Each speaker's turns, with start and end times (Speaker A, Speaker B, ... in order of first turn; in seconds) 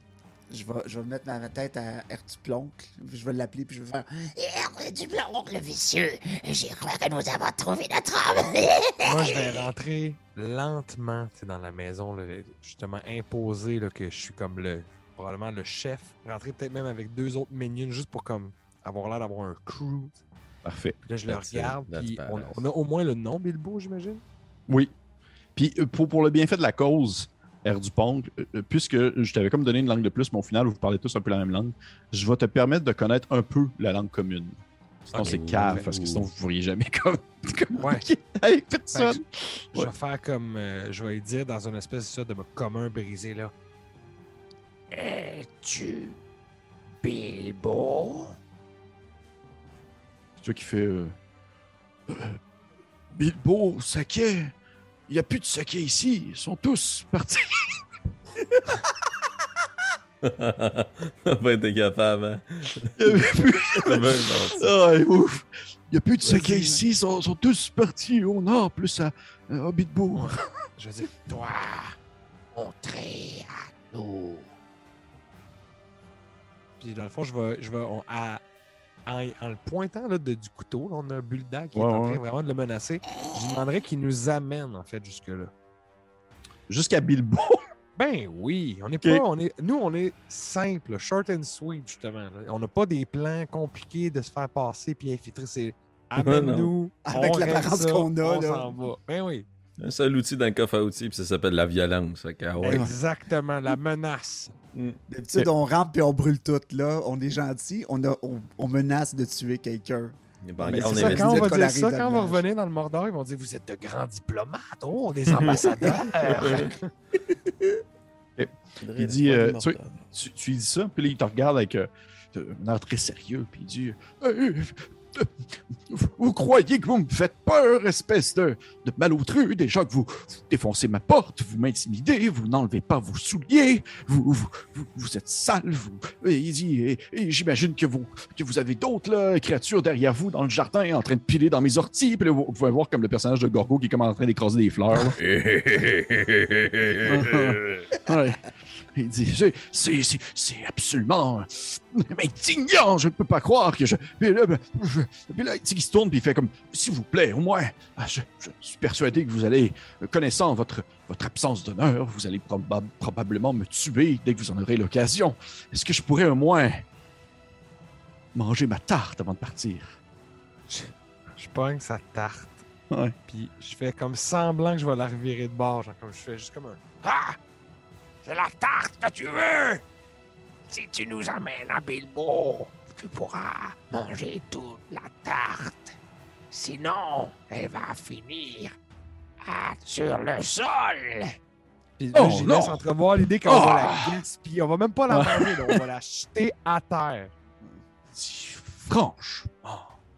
Speaker A: 0.5-4.3, 66.2-66.8, 97.0-98.7, 102.6-102.9, 105.1-112.4, 115.5-116.1
Speaker B: 4.4-9.3, 44.9-46.2, 47.0-48.4, 71.3-72.0, 72.5-74.5, 177.0-177.4, 178.2-179.8, 180.7-185.9, 186.5-188.7, 189.4-191.3
Speaker C: 9.0-20.2, 21.1-24.2, 35.1-35.8, 37.7-38.0, 38.9-39.2, 39.7-43.5, 70.1-71.3, 76.8-78.4, 79.0-85.5, 88.0-99.5, 102.6-104.5, 110.7-116.9, 170.7-172.6, 173.3-176.8, 192.0-197.3
Speaker D: 20.6-21.0, 25.6-39.9, 50.4-51.2, 52.1-52.4, 53.1-54.5, 55.1-57.8, 58.4-58.8, 63.0-70.4, 81.7-82.2, 86.7-87.6, 118.4-145.2, 147.0-166.8, 168.3-170.0, 172.9-173.2, 192.1-192.8, 193.4-194.2, 195.1-195.8, 198.1-199.9
Speaker E: 21.3-22.6, 35.2-36.2, 60.2-64.7, 96.2-96.7, 99.8-102.9, 104.7-105.5, 110.4-111.6, 116.4-116.7, 118.8-120.0, 145.0-147.9